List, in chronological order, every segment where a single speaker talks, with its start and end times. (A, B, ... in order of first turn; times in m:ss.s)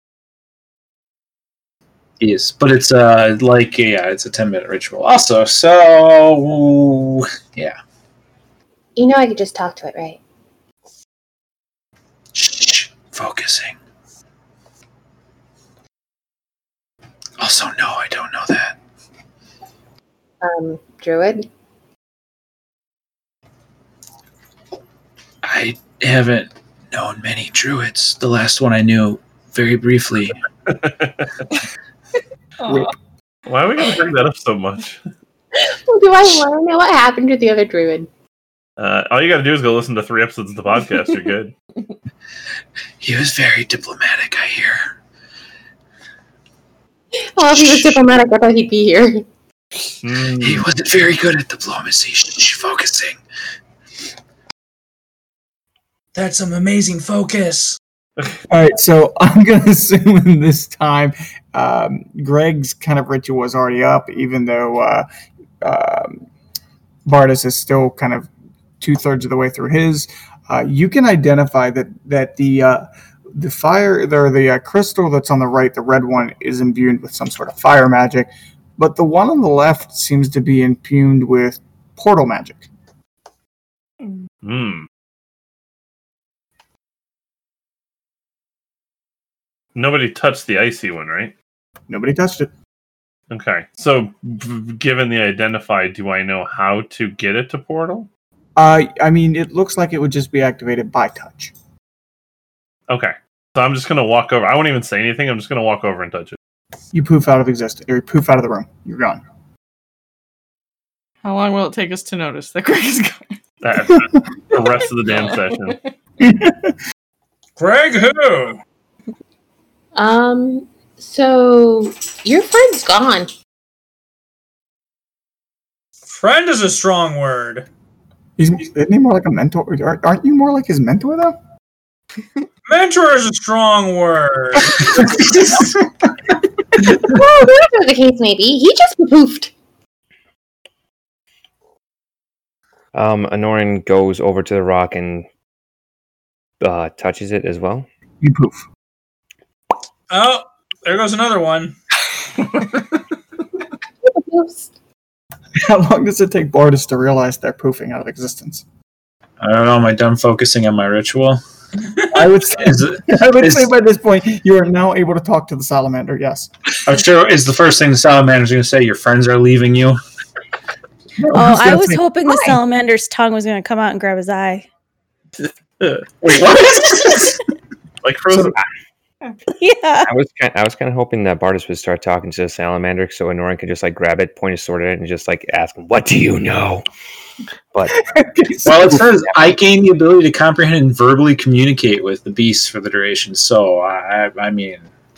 0:02.2-0:07.8 A
0:09.0-0:10.2 B
0:12.3-0:13.8 A
0:17.4-0:18.8 A
0:20.4-0:21.5 B
0:25.4-0:30.4 A
0:30.7-0:31.3 C
0:32.6-0:32.9 D
0:33.4-0:35.0 C
0:35.5-0:38.1 B
0:38.8-0:41.5 C
0:43.0-0:44.9 A
0:47.3-0:49.2 B
0:50.0-0:50.6 C
0:50.4-0:53.2 A
0:56.1-0:57.8 E
0:58.5-1:05.0 F
1:05.6-1:06.2 F
1:07.0-1:08.3 F
1:08.8-1:22.7 F
1:24.4-1:24.9 C
1:29.7-1:31.3 C
1:31.9-1:32.5 F
1:33.3-1:38.1 C
1:38.6-1:41.5 F
1:42.9-1:46.4 C
1:46.9-1:49.2 F
1:51.2-1:53.3 D
1:53.6-1:55.8 C
1:55.1-1:55.6 D
1:56.2-1:56.7 F
1:57.6-1:58.6 E
1:59.9-2:03.3 B
2:06.1-2:07.7 E
2:08.4-2:11.4 F
2:12.6-2:15.1 E
2:15.0-2:15.7 A
2:17.0-2:19.5 B
2:22.9-2:25.3 G
2:26.6-2:27.9 G
2:28.2-2:28.6 F
2:30.1-2:31.7 E
2:34.0-2:34.7 B
2:35.6-2:38.6 F
2:39.4-2:41.4 A
2:42.1-2:46.5 F
2:42.5-2:43.7 A
2:46.8-2:50.0 A
2:51.2-2:52.6 F
2:51.3-2:54.6 H
2:56.2-2:57.4 A
2:58.0-2:58.6 C
2:59.6-3:00.1 H
3:00.0-3:06.8 G
3:07.7-3:08.0 G
3:08.0-3:08.6 F
3:08.6-3:09.6 G
3:08.6-3:14.9 A